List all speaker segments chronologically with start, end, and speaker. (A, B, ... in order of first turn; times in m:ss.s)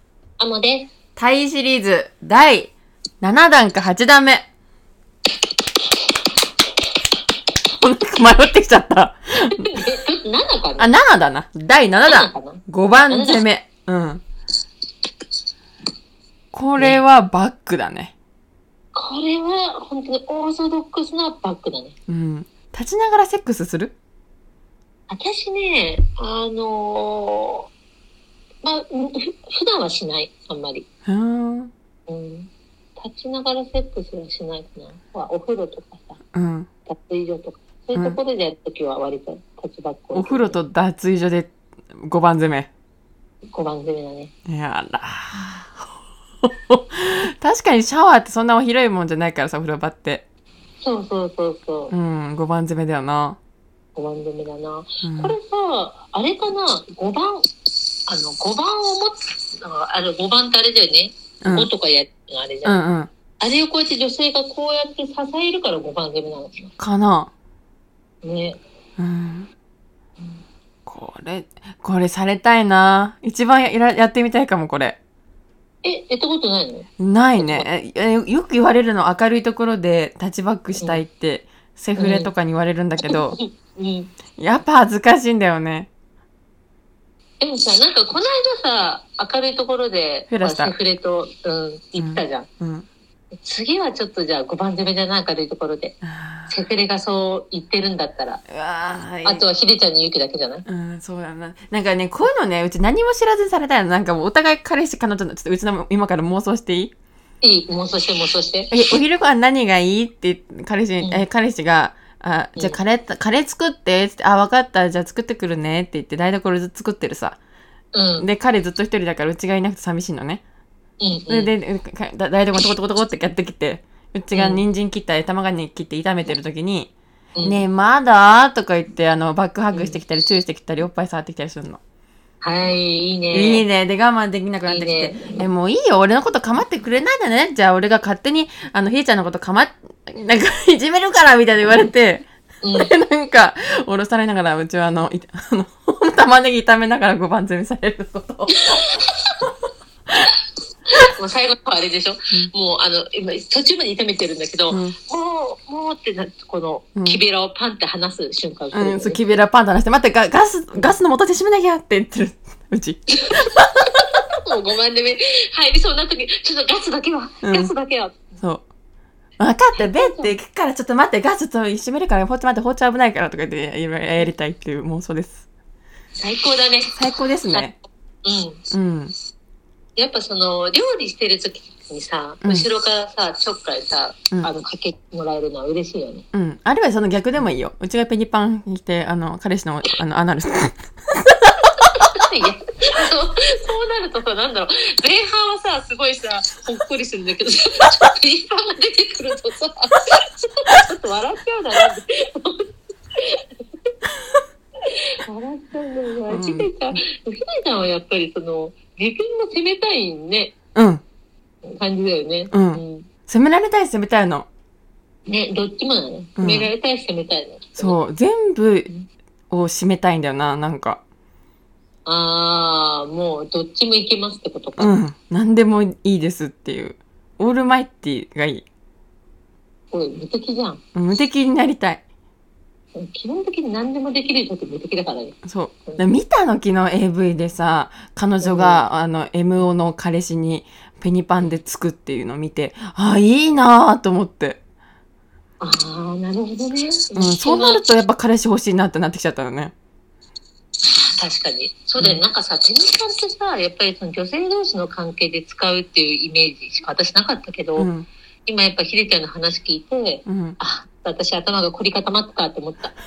0:00.4-0:00.9 A
0:01.2-0:04.4 B
0:07.8-0:09.7 B
0:09.6-0:10.9 A
0:10.8-0:14.2 B
0:12.1-0:13.4 A
0:16.5-0:18.1 B
0:18.9-0:22.0 A
0:22.1-0:23.9 B
0:25.1-0:27.7 A
0:28.6-0:30.8 A
0:31.0-0:31.7 B
0:32.1-0:36.2 A
0:36.3-0:36.7 B
0:36.9-0:40.6 A
0:40.1-0:42.7 B
0:43.5-0:44.3 A
0:44.4-0:45.8 B
0:46.4-0:50.2 B
0:50.8-0:51.9 A
0:51.9-0:53.4 B
0:54.0-0:57.4 A
0:55.0-0:55.3 B
0:58.1-1:02.8 A
1:01.4-1:01.7 B
1:02.6-1:03.1 B
1:03.4-1:06.7 A
1:06.8-1:07.3 B
1:08.2-1:08.6 A
1:09.0-1:09.5 B
1:10.8-1:15.0 B
1:15.8-1:17.7 A
1:17.0-1:23.4 B
1:22.0-1:22.3 A
1:23.0-1:24.1 A
1:24.4-1:25.9 B
1:27.4-1:32.5 A
1:30.3-1:30.7 B
1:32.0-1:32.9 B
1:33.4-1:36.0 A
1:36.0-1:36.5 B
1:36.5-1:38.4 A
1:38.5-1:39.4 B
1:39.2-1:40.6 A
1:40.6-1:46.9 B
1:47.4-1:48.8 A
1:48.7-1:57.4 B
1:57.9-1:58.3 A
1:58.2-2:00.4 B
2:01.0-2:01.5 A
2:01.3-2:06.9 B
2:04.3-2:04.6 A
2:07.4-2:07.6 A
2:07.4-2:11.8 B
2:09.7-2:10.0 A
2:12.4-2:13.6 A
2:13.3-2:28.7 B
2:14.6-2:15.4 A
2:22.6-2:22.9 A
2:28.6-2:29.3 A
2:31.1-2:39.2 A
2:34.7-2:34.9 B
2:37.0-2:37.2 B
2:38.7-2:43.7 B
2:43.2-2:48.2 A
2:47.4-2:47.7 B
2:48.4-2:48.6 B
2:49.4-2:55.4 B
2:49.8-2:50.3 A
2:56.2-2:57.7 A
2:57.0-2:57.8 B
2:58.2-2:58.6 A
2:58.7-2:59.1 B
3:00.0-3:06.2 A
3:02.4-3:02.7 B
3:06.3-3:11.7 B
3:12.0-3:23.5 A
3:24.9-3:30.5 A
3:26.3-3:26.7 B
3:30.7-3:31.0 B
3:31.7-3:33.1 A
3:32.5-3:34.5 B
3:35.3-3:38.0 A
3:36.4-3:36.7 B
3:37.8-3:38.9 B
3:39.5-3:41.0 B
3:42.0-3:45.0 A
3:44.8-3:48.6 B
3:49.9-3:50.8 A
3:50.9-3:52.0 B
3:52.9-3:56.0 A
3:55.4-4:04.6 B
3:58.4-3:58.8 A
4:05.6-4:07.8 A
4:07.1-4:09.7 B
4:10.8-4:17.9 A
4:17.8-4:18.1 B
4:18.5-4:22.9 A
4:20.2-4:20.6 B